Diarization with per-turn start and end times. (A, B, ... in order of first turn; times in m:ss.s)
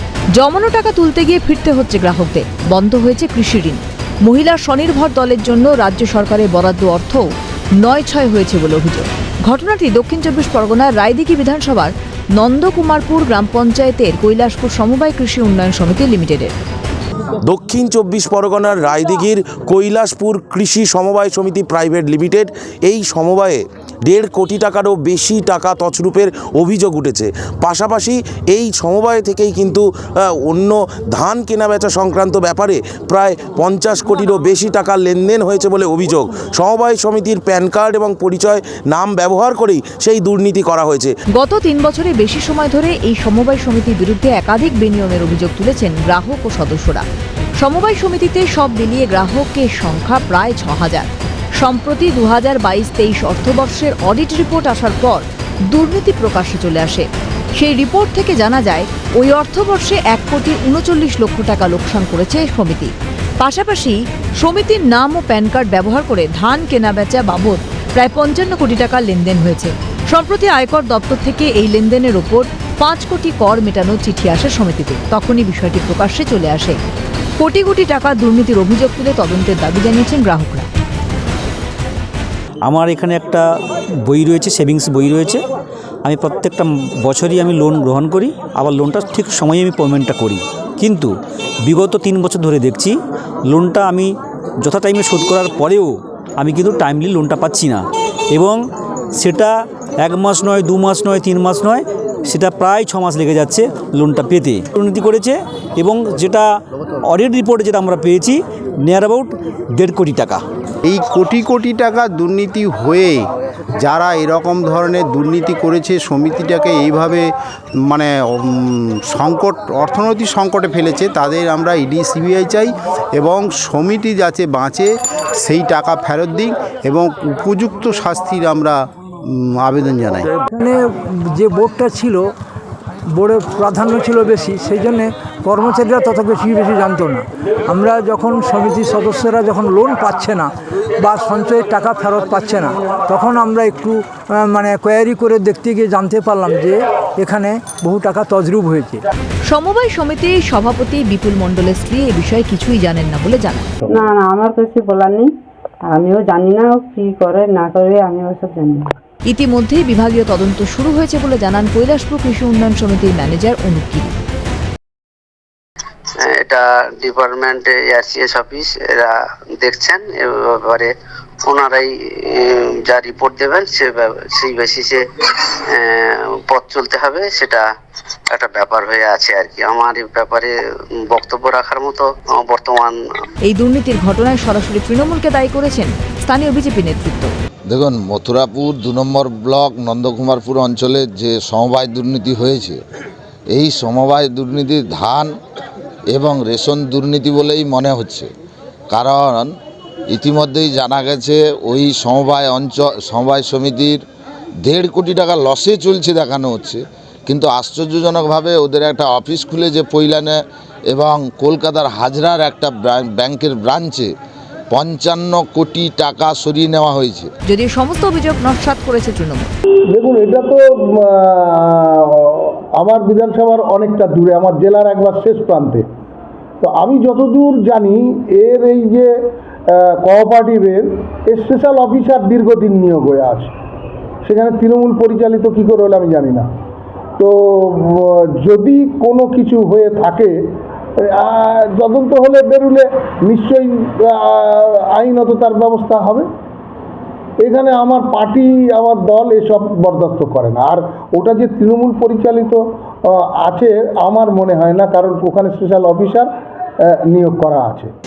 0:00.3-0:07.3 A
0:07.8-0:16.5 A
0:17.4-0:41.1 B
0:41.3-0:47.0 A
0:47.6-1:16.8 A
1:17.4-1:20.7 A
1:22.6-1:23.4 C
1:24.0-1:25.4 C
1:26.0-1:31.1 C
1:31.6-1:33.0 C
1:33.5-1:38.6 C
1:39.2-1:46.5 C
1:47.1-1:50.4 C
1:50.8-1:53.2 D
1:53.8-1:57.3 D
1:57.8-2:08.8 D
2:09.3-2:10.3 D
2:10.5-2:12.2 E
2:13.2-2:20.5 E
2:21.0-2:29.0 E
2:29.5-2:33.7 A
2:33.9-2:35.3 F
2:35.9-2:38.8 F
2:39.3-2:44.1 A
2:46.2-2:50.9 G
2:51.4-2:55.0 G
2:55.7-2:57.6 G
2:58.3-3:00.5 G
3:01.1-3:03.0 G
3:03.4-3:07.3 A
3:07.7-3:12.8 H
3:13.5-3:15.3 H
3:16.1-3:18.3 H
3:18.9-3:19.5 H
3:20.1-3:24.0 H
3:24.6-3:34.1 H
3:34.7-3:37.3 H
3:37.4-3:39.5 A
3:39.9-3:45.8 I
3:46.6-3:49.1 I
3:49.7-3:53.5 I
3:54.2-3:56.5 I
3:57.2-4:00.4 I
4:01.0-4:06.2 I
4:07.4-4:16.3 I
4:17.1-4:17.9 I